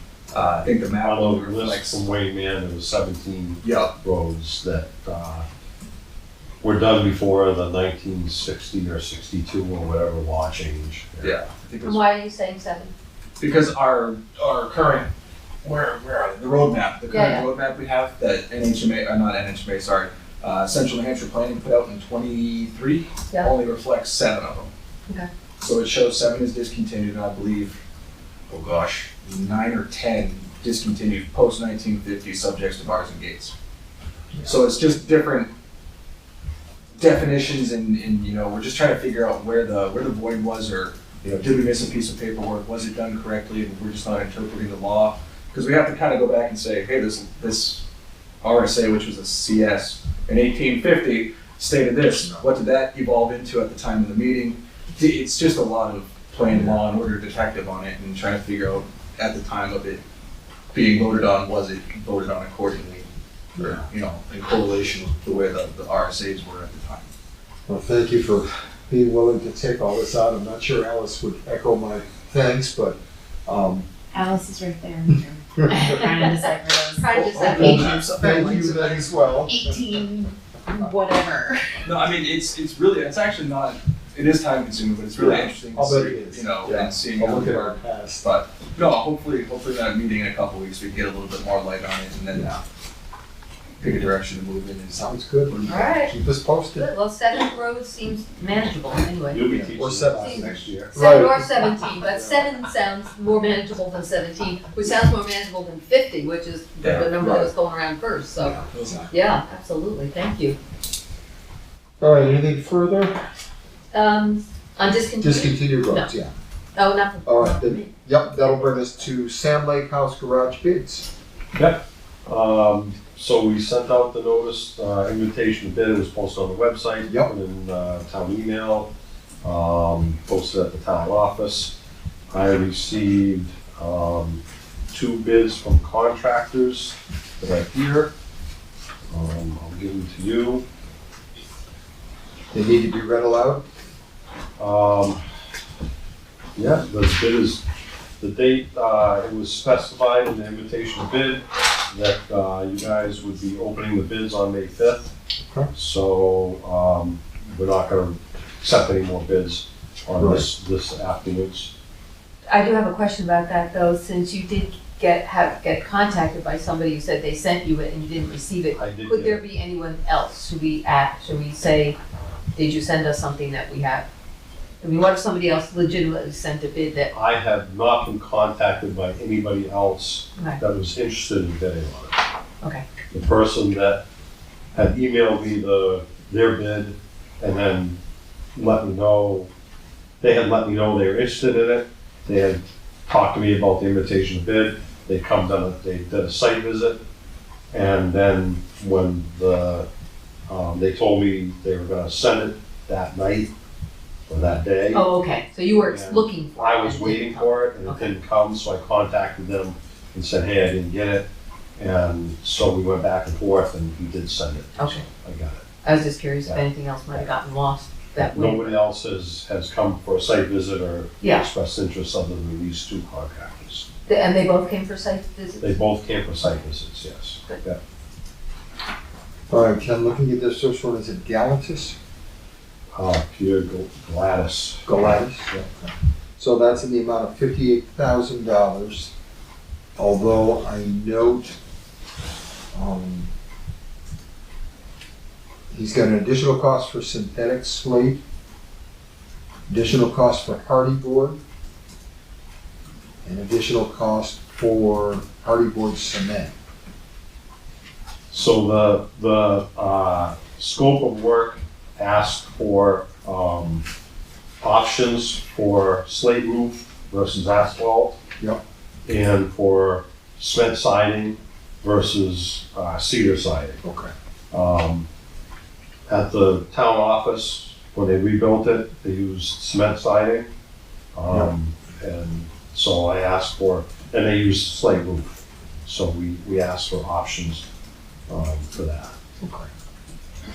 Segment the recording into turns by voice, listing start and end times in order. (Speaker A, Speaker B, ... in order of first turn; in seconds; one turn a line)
Speaker A: 0.3-2.1
Speaker B: 1.0-5.5
Speaker A: 3.6-3.9
Speaker B: 6.6-11.3
Speaker A: 11.2-12.0
Speaker C: 11.8-12.9
Speaker A: 13.4-15.1
Speaker A: 15.6-24.7
Speaker C: 17.1-17.4
Speaker A: 25.6-27.8
Speaker A: 28.5-33.5
Speaker A: 34.4-35.5
Speaker A: 37.0-47.8
Speaker A: 48.4-60.0
Speaker D: 52.2-52.5
Speaker A: 60.7-67.1
Speaker D: 63.6-63.8
Speaker D: 67.7-73.9
Speaker E: 74.1-77.8
Speaker C: 75.7-76.3
Speaker C: 77.0-78.7
Speaker A: 77.3-79.2
Speaker D: 77.4-80.0
Speaker E: 79.4-81.9
Speaker A: 81.8-92.6
Speaker D: 85.2-88.3
Speaker A: 93.8-95.8
Speaker D: 94.9-96.9
Speaker C: 95.7-96.1
Speaker C: 96.8-99.6
Speaker B: 99.3-101.0
Speaker D: 99.5-102.5
Speaker C: 100.2-110.6
Speaker A: 106.8-107.1
Speaker D: 107.2-107.5
Speaker A: 108.4-109.2
Speaker D: 112.0-113.2
Speaker C: 113.9-116.1
Speaker D: 115.2-116.3
Speaker C: 116.8-118.5
Speaker D: 117.2-121.1
Speaker B: 121.5-128.9
Speaker D: 127.0-127.3
Speaker B: 129.4-131.8
Speaker B: 132.3-138.1
Speaker B: 139.1-140.7
Speaker D: 142.5-143.6
Speaker B: 144.6-145.2
Speaker B: 146.6-147.7
Speaker B: 148.2-155.1
Speaker D: 155.4-155.7
Speaker B: 155.7-161.7
Speaker D: 160.2-160.5
Speaker C: 162.5-172.0
Speaker B: 168.7-169.4
Speaker C: 172.6-174.1
Speaker C: 174.8-177.1
Speaker B: 177.1-182.2
Speaker B: 183.1-184.0
Speaker B: 184.8-188.0
Speaker B: 188.6-189.5
Speaker B: 190.2-197.0
Speaker B: 197.7-199.9
Speaker B: 200.5-203.5
Speaker B: 204.3-205.1
Speaker C: 204.9-208.1
Speaker B: 205.8-215.7
Speaker C: 214.8-215.1
Speaker C: 215.8-218.7
Speaker B: 216.5-217.3
Speaker B: 218.2-223.9
Speaker C: 221.2-221.5
Speaker C: 224.1-225.8
Speaker B: 225.6-227.8
Speaker D: 229.5-231.9
Speaker B: 232.9-235.0
Speaker D: 234.9-239.1
Speaker D: 240.0-241.6
Speaker D: 242.7-243.3
Speaker D: 245.7-248.2
Speaker D: 249.7-251.4
Speaker D: 253.2-256.5
Speaker B: 258.3-263.9
Speaker B: 264.6-268.2
Speaker B: 269.1-273.8
Speaker D: 273.8-274.1
Speaker B: 274.5-275.1
Speaker B: 276.1-280.5
Speaker B: 281.1-287.7
Speaker D: 281.3-281.5
Speaker B: 288.3-289.1
Speaker D: 289.4-289.7